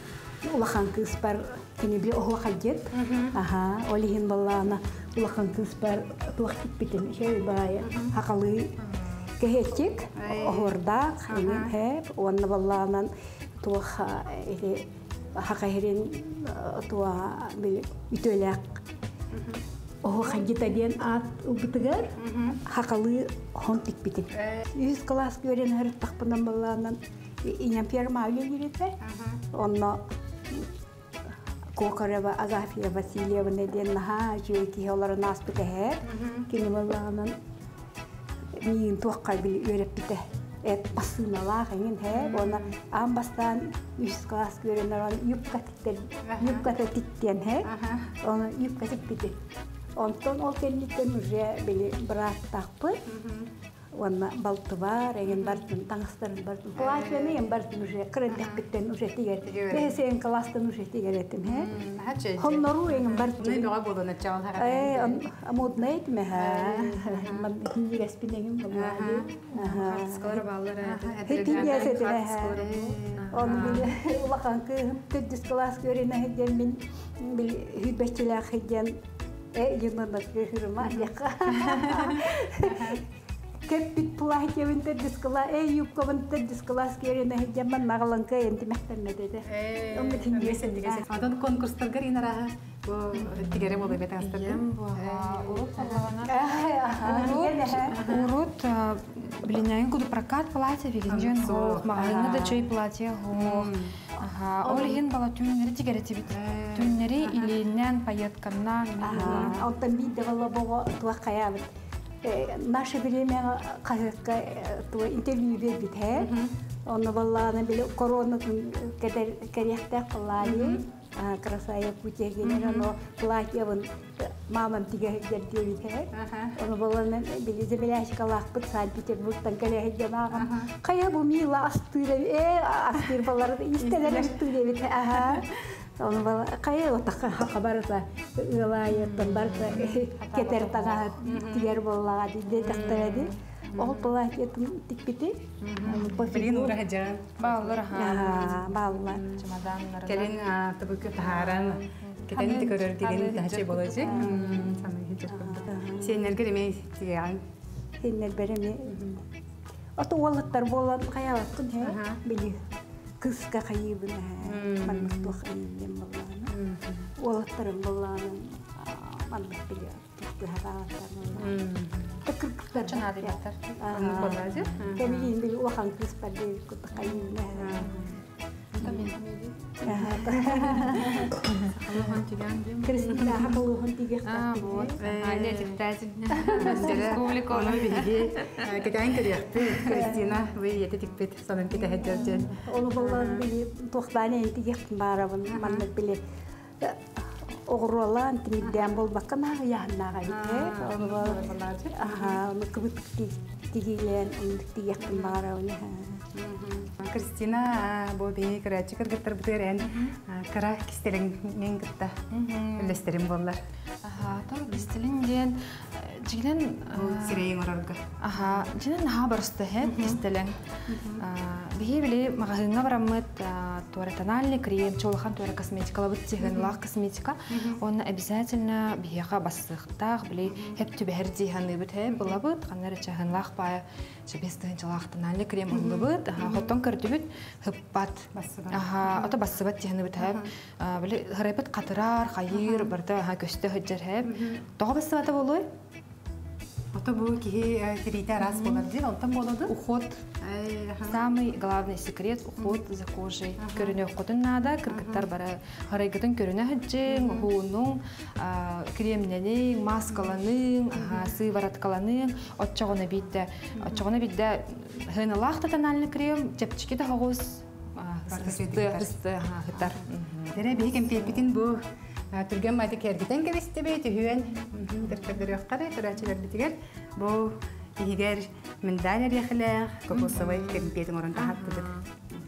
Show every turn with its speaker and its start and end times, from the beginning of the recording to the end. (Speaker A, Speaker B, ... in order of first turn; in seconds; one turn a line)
Speaker A: 0.4-8.8
Speaker B: 2.9-3.4
Speaker B: 7.8-8.1
Speaker C: 8.8-9.3
Speaker A: 9.4-13.1
Speaker B: 10.2-10.8
Speaker B: 11.3-11.7
Speaker A: 13.6-18.8
Speaker B: 19.3-19.6
Speaker A: 20.0-29.0
Speaker B: 22.2-22.6
Speaker B: 24.3-24.7
Speaker B: 29.0-29.4
Speaker A: 29.5-30.7
Speaker A: 31.8-37.4
Speaker B: 36.1-36.5
Speaker A: 38.6-49.4
Speaker B: 42.1-42.7
Speaker B: 46.2-46.7
Speaker B: 47.6-48.1
Speaker A: 50.0-53.0
Speaker B: 53.1-53.5
Speaker A: 53.9-61.7
Speaker B: 55.3-55.6
Speaker B: 56.8-57.4
Speaker B: 58.3-58.6
Speaker B: 59.5-60.0
Speaker B: 61.5-65.2
Speaker A: 62.4-63.7
Speaker A: 64.6-70.4
Speaker B: 66.3-67.5
Speaker B: 68.7-69.3
Speaker C: 69.2-73.9
Speaker B: 70.8-73.9
Speaker A: 71.2-72.6
Speaker A: 73.3-79.0
Speaker A: 79.5-83.0
Speaker B: 80.8-83.0
Speaker A: 83.7-91.1
Speaker B: 89.5-96.1
Speaker C: 93.1-96.4
Speaker A: 96.2-98.0
Speaker C: 97.0-109.7
Speaker B: 97.0-98.3
Speaker B: 101.1-102.0
Speaker A: 102.0-102.7
Speaker B: 103.3-104.0
Speaker A: 104.7-105.0
Speaker B: 106.3-107.5
Speaker A: 109.0-111.7
Speaker B: 109.2-109.5
Speaker A: 112.2-116.4
Speaker B: 116.2-116.5
Speaker A: 116.9-146.8
Speaker B: 120.4-120.8
Speaker B: 122.4-122.9
Speaker B: 126.1-126.6
Speaker B: 130.3-130.7
Speaker B: 133.8-134.5
Speaker B: 135.1-135.6
Speaker C: 138.9-141.2
Speaker B: 141.2-141.8
Speaker B: 142.6-144.2
Speaker C: 142.7-143.4
Speaker B: 145.6-147.8
Speaker C: 145.8-146.2
Speaker C: 147.4-150.4
Speaker A: 147.9-149.2
Speaker B: 148.5-149.4
Speaker B: 150.1-157.4
Speaker C: 151.0-154.9
Speaker A: 154.1-154.7
Speaker A: 155.3-156.2
Speaker A: 158.0-159.2
Speaker B: 158.9-159.2
Speaker A: 160.0-162.6
Speaker B: 161.8-162.2
Speaker A: 163.2-166.6
Speaker B: 164.4-165.3
Speaker B: 166.5-167.1
Speaker A: 167.2-171.6
Speaker B: 171.4-172.2
Speaker A: 172.2-178.0
Speaker C: 172.8-175.3
Speaker B: 173.9-175.2
Speaker C: 176.9-178.2
Speaker B: 177.5-178.1
Speaker C: 178.8-179.7
Speaker A: 179.8-181.3
Speaker B: 179.9-181.4
Speaker C: 181.0-183.0
Speaker A: 182.8-185.0
Speaker B: 182.8-183.6
Speaker C: 184.2-188.9
Speaker B: 185.0-185.9
Speaker A: 186.3-187.2
Speaker B: 186.5-193.5
Speaker C: 189.6-189.9
Speaker A: 189.8-190.3
Speaker A: 191.8-196.2
Speaker B: 195.5-195.8
Speaker A: 196.8-206.3
Speaker B: 200.3-202.4
Speaker B: 205.0-205.4
Speaker B: 206.3-212.2
Speaker C: 212.3-213.1
Speaker B: 212.8-213.6
Speaker C: 214.0-217.5
Speaker B: 216.9-218.7
Speaker C: 218.2-245.7
Speaker B: 219.8-220.2
Speaker B: 220.9-221.2
Speaker B: 226.4-226.8
Speaker B: 227.5-227.8
Speaker B: 230.5-230.8
Speaker B: 232.1-232.4
Speaker B: 235.7-236.7
Speaker B: 238.3-239.3
Speaker B: 240.2-240.5
Speaker B: 242.5-242.9
Speaker B: 244.2-244.6
Speaker B: 246.9-249.7
Speaker C: 248.4-248.9
Speaker C: 249.7-250.2
Speaker B: 250.4-251.2
Speaker C: 251.1-270.6
Speaker B: 253.6-254.0
Speaker B: 254.9-255.3
Speaker B: 257.1-257.5
Speaker B: 260.9-261.3
Speaker B: 268.3-269.1
Speaker B: 270.5-271.8
Speaker C: 271.1-271.4
Speaker B: 272.3-281.9
Speaker C: 280.1-282.1